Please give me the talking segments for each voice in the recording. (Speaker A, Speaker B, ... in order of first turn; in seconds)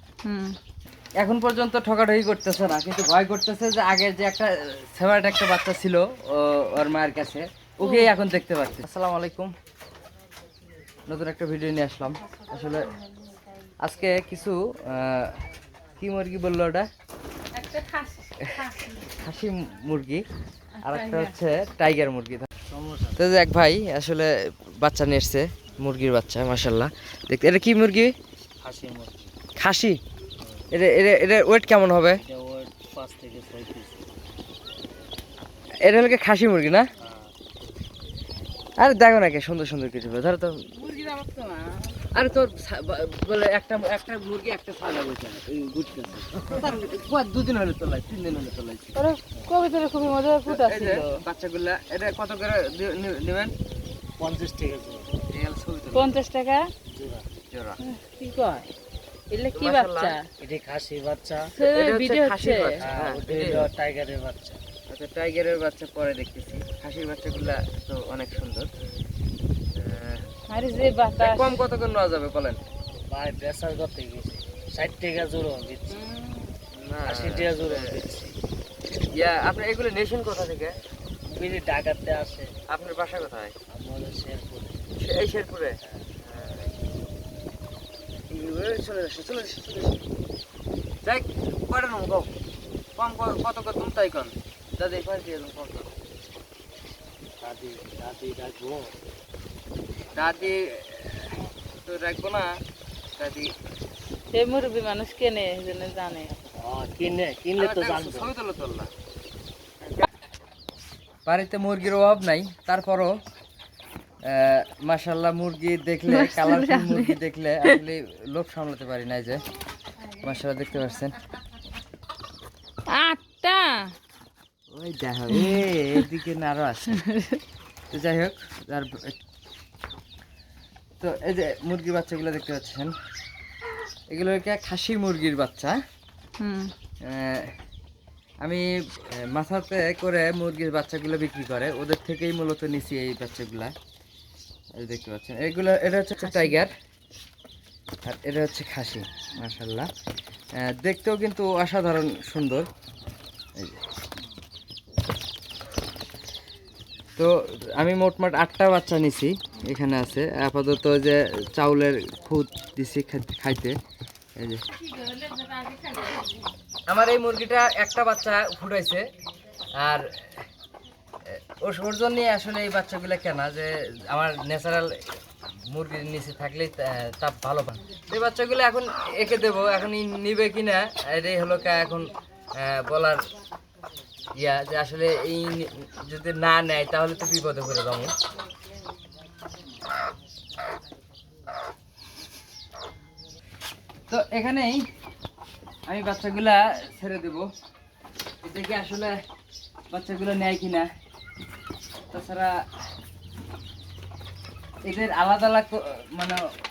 Speaker A: 0.2-0.5, 7.8-8.1, 17.5-18.9, 20.8-21.4, 40.9-42.0, 49.0-51.1, 55.9-56.7, 57.8-58.7, 59.3-60.2, 61.4-62.8, 70.5-71.6, 104.3-106.3, 116.1-117.8, 122.9-123.9, 125.3-125.6, 127.1-127.4, 136.4-136.7, 146.3-146.6, 164.8-166.3
Speaker B: 1.2-9.5, 11.1-12.9, 13.8-15.4, 16.0-16.9, 18.4-20.2, 20.8-22.5, 23.2-28.1, 29.6-30.0, 30.7-32.2, 35.9-36.9, 38.8-40.7, 42.1-49.0, 50.5-53.5, 55.3-56.1, 57.5-57.8, 59.5-60.1, 61.6-63.7, 64.9-68.7, 69.8-70.2, 71.2-72.6, 76.7-78.0, 79.1-80.8, 82.7-83.5, 85.0-86.7, 88.3-90.0, 91.0-92.3, 93.0-95.9, 100.1-102.5, 103.2-103.5, 107.6-108.9, 111.3-113.2, 114.3-119.4, 120.2-121.2, 124.7-127.1, 127.9-129.2, 131.0-132.9, 134.1-135.8, 137.1-137.5, 138.4-143.7, 144.8-146.7, 148.0-149.9, 150.6-152.7, 157.2-163.8, 166.9-169.1, 169.8-170.1, 171.3-175.0, 175.7-183.2, 184.4-188.1, 194.1-194.8, 195.9-197.5, 198.4-199.2, 199.9-200.9, 202.1-202.6, 204.9-206.4
Speaker C: 22.7-23.2, 28.6-29.4, 32.2-34.0, 37.0-37.3, 54.2-55.1, 56.9-57.2, 60.4-61.5, 62.8-64.6, 73.1-76.0, 77.0-78.3, 81.3-82.5, 83.7-84.8, 97.4-98.9, 106.6-108.3